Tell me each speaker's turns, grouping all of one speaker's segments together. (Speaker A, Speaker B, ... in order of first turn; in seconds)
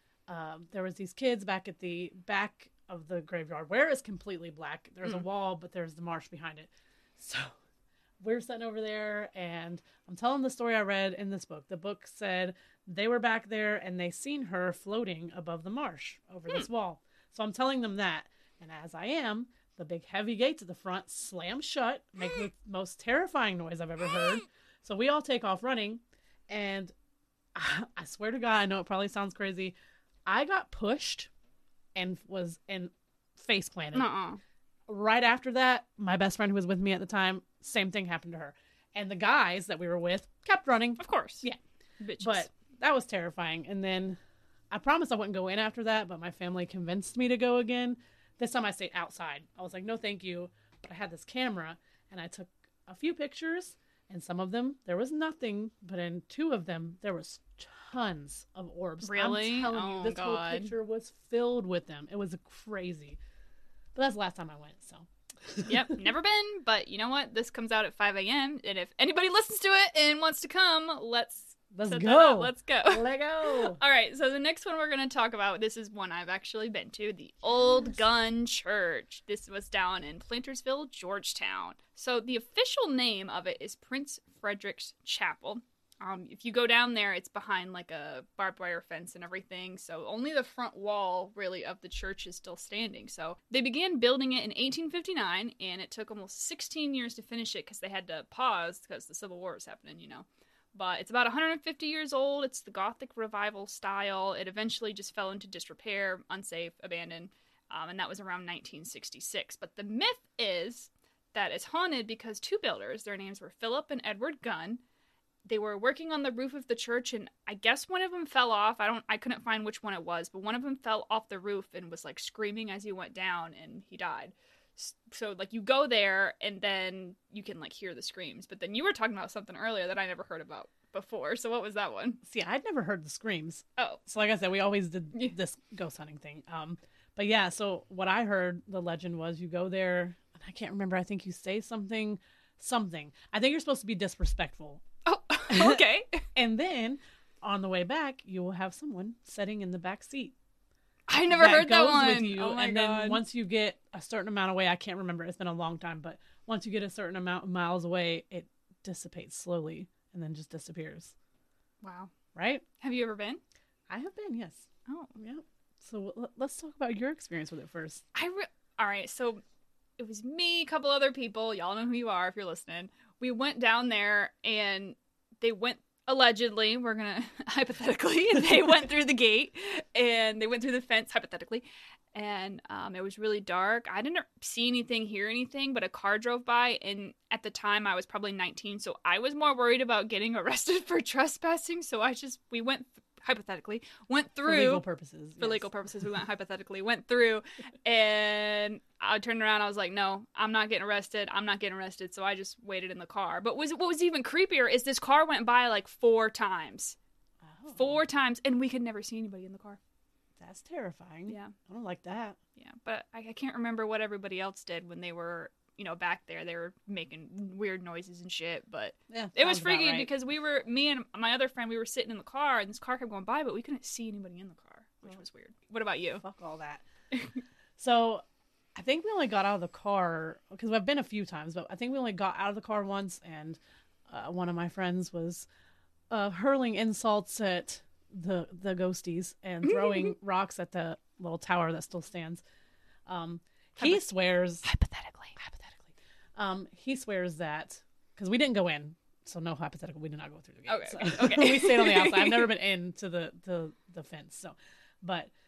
Speaker A: 0.3-7.5, 8.2-26.9, 27.5-29.8, 30.3-31.3, 31.9-34.1, 34.9-41.6, 42.2-44.2, 44.7-63.2, 63.9-65.8, 71.7-73.8, 132.2-144.8, 145.5-145.8, 146.3-150.3, 151.3-161.1, 162.3-162.6, 163.9-168.0, 194.4-195.7, 207.4-208.0, 210.4-212.4, 219.1-220.1, 226.2-226.8, 227.8-228.2, 228.8-235.5, 236.1-242.4, 243.1-244.7, 245.4-255.3
Speaker B: 33.9-34.4, 41.0-41.5, 42.0-42.5, 59.0-60.7, 65.6-114.8, 115.4-132.2, 145.1-146.2, 151.1-153.2, 161.8-162.1, 162.8-163.4, 164.9-165.1, 168.1-169.4, 170.0-194.8, 195.4-206.9, 207.7-209.8, 211.3-211.5, 212.6-226.2, 227.1-227.4, 239.6-240.1, 243.8-244.0, 244.6-245.3, 250.7-252.5